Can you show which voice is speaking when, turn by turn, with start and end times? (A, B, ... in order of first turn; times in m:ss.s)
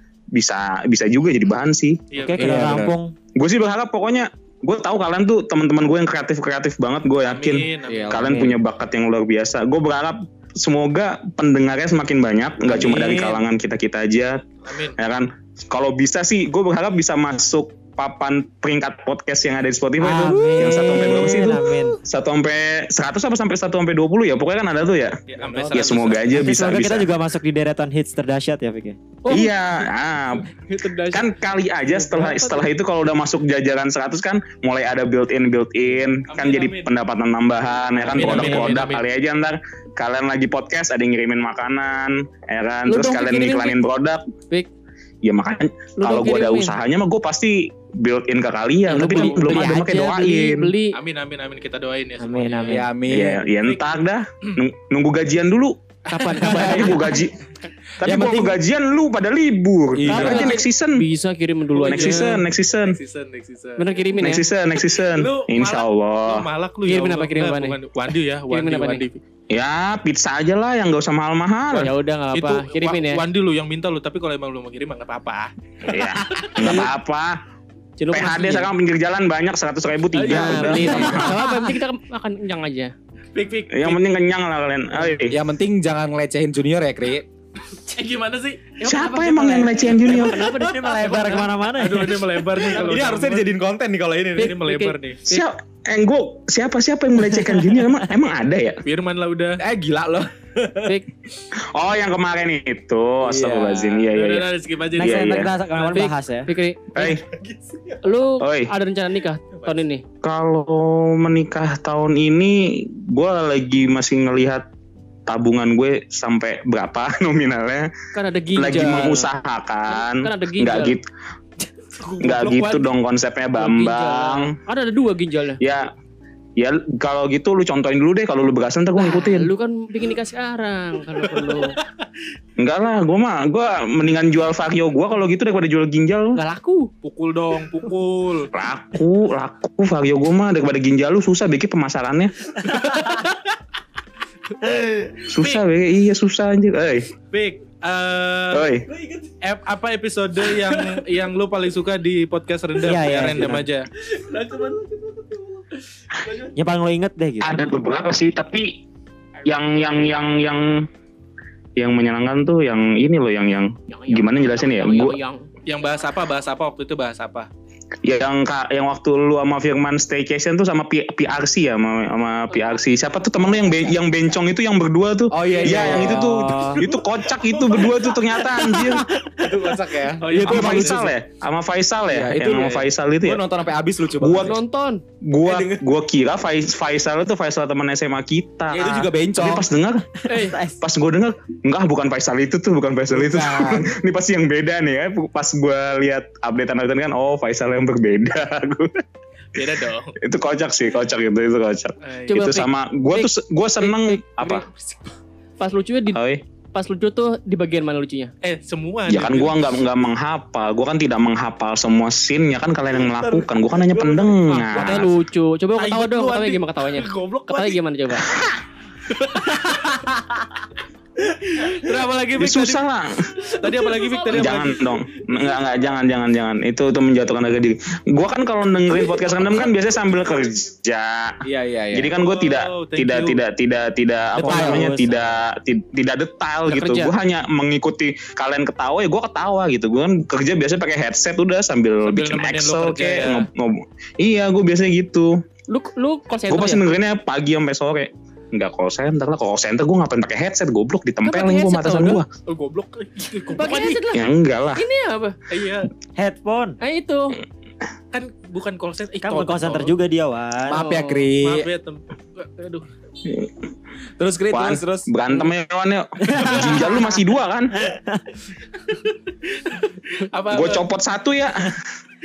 0:00.4-0:02.0 A
0:02.1-0:02.6 B
0:02.2-0:03.1 C
0:02.4-0:03.0 D
0:03.4-0:14.4 A
0:07.3-0:08.1 B
0:07.9-0:08.5 D
0:08.3-0:08.6 C
0:12.7-0:13.3 B
0:12.8-0:13.2 D
0:14.7-0:15.0 B
0:15.0-0:25.1 A
0:20.0-0:22.0 C
0:20.2-0:21.4 D
0:25.3-0:26.4 B
0:25.4-0:26.1 D
0:25.7-0:27.1 A
0:26.3-0:29.0 C
0:29.2-0:29.6 B
0:29.3-0:30.5 A
0:30.6-0:31.3 B
0:31.1-0:44.2 A
0:31.9-0:32.6 B
0:36.3-0:36.9 B
0:38.0-0:38.7 D
0:38.1-0:39.0 B
0:42.9-0:43.8 E
0:45.2-0:50.7 A
0:46.0-0:46.8 E
0:48.9-0:51.0 E
0:49.1-0:49.8 B
0:50.9-0:52.8 B
0:52.2-0:52.9 C
0:52.4-0:52.9 E
0:52.7-0:53.4 D
0:53.1-0:55.7 A
0:56.2-0:57.0 B
0:56.2-0:57.1 E
0:56.4-0:57.3 A
0:56.5-0:56.9 D
0:58.0-1:01.0 A
0:58.0-0:58.6 D
1:00.0-1:00.6 D
1:00.1-1:02.3 E
1:01.8-1:04.0 B
1:01.8-1:03.0 A
1:03.8-1:04.5 E
1:04.2-1:06.5 A
1:05.1-1:09.2 B
1:06.9-1:07.8 E
1:08.5-1:09.1 E
1:09.5-1:11.9 A
1:11.7-1:13.2 E
1:12.3-1:16.9 B
1:15.9-1:17.4 A
1:16.6-1:16.9 E
1:18.0-1:18.7 E
1:18.1-1:21.5 A
1:20.1-1:21.4 B
1:20.2-1:22.9 E
1:23.3-1:24.0 B
1:23.7-1:25.4 A
1:25.3-1:27.3 D
1:27.9-1:30.2 B
1:28.8-1:30.5 A
1:29.0-1:31.4 E
1:30.5-1:32.5 C
1:31.0-1:33.5 B
1:32.6-1:34.6 D
1:34.4-1:35.4 B
1:34.4-1:35.0 E
1:35.2-1:38.8 A
1:38.9-1:39.6 B
1:39.6-1:41.0 D
1:41.7-1:45.5 A
1:43.2-1:44.1 D
1:44.1-1:46.1 B
1:45.0-1:46.5 C
1:45.9-1:47.2 E
1:46.9-1:47.2 A
1:47.0-1:48.2 D
1:48.0-1:50.0 E
1:48.4-1:48.7 A
1:50.2-1:54.6 A
1:55.3-1:57.9 A
1:58.1-1:59.3 E
1:58.6-2:01.0 A
1:59.9-2:01.0 E
2:02.2-2:04.5 A
2:02.3-2:02.9 E
2:03.6-2:05.6 E
2:05.6-2:05.9 A
2:06.6-2:09.5 A
2:09.0-2:11.8 E
2:12.6-2:16.4 A
2:16.4-2:16.9 E
2:17.0-2:18.5 B
2:18.5-2:22.3 A
2:22.7-2:23.2 B
2:24.6-2:25.6 B
2:25.3-2:27.1 A
2:27.3-2:28.7 B
2:28.5-2:28.8 A
2:28.9-2:29.3 D
2:29.4-2:33.9 B
2:30.5-2:31.0 D
2:32.8-2:33.7 C
2:34.2-2:35.6 D
2:36.5-2:37.6 C
2:37.4-2:38.8 A
2:39.4-2:40.7 A
2:39.9-2:40.2 E
2:41.8-2:45.2 A
2:43.9-2:46.3 E
2:45.7-2:47.5 B
2:48.0-2:59.0 A
2:52.5-2:53.3 E
2:55.3-3:01.1 D
3:00.2-3:01.1 B
3:00.4-3:03.4 A
3:02.1-3:04.6 D
3:04.2-3:04.6 A
3:04.4-3:05.0 E
3:05.3-3:10.0 A
3:05.4-3:05.8 D
3:08.7-3:09.7 D
3:10.3-3:10.6 E
3:10.8-3:18.9 A
3:13.1-3:13.9 D
3:19.6-3:20.1 B
3:20.2-3:24.7 A
3:22.0-3:22.4 B
3:22.3-3:24.6 E
3:24.7-3:25.1 D
3:25.6-3:26.2 E
3:26.1-3:26.4 A
3:26.7-3:28.3 E
3:28.4-3:29.6 B
3:29.1-3:35.1 A
3:33.0-3:33.4 D
3:34.0-3:34.7 D
3:34.5-3:35.1 B
3:34.7-3:38.3 E
3:35.8-3:37.8 B
3:39.1-3:40.0 B
3:41.3-3:42.8 B
3:42.4-3:43.2 A
3:43.5-3:44.8 B
3:43.6-3:44.8 E
3:44.3-3:51.4 A
3:45.6-3:46.0 E
3:51.5-3:52.1 D
3:51.9-4:05.3 A
3:52.2-3:53.4 B
3:54.4-3:55.3 C
3:54.4-3:54.9 D
3:56.7-3:57.1 B
4:02.0-4:03.5 B
4:05.7-4:06.9 E
4:06.5-4:12.3 A
4:11.2-4:12.2 E
4:12.5-4:14.0 B
4:13.5-4:15.4 E
4:14.1-4:14.8 A
4:15.5-4:15.9 B
4:16.2-4:16.8 C
4:16.8-4:17.4 E
4:18.1-4:20.0 B
4:19.2-4:20.8 C
4:20.7-4:21.3 E
4:20.7-4:21.7 D
4:21.4-4:22.9 B
4:24.2-4:25.1 D
4:24.5-4:27.8 A
4:27.9-4:28.2 C
4:30.2-4:30.8 B
4:30.5-4:31.7 A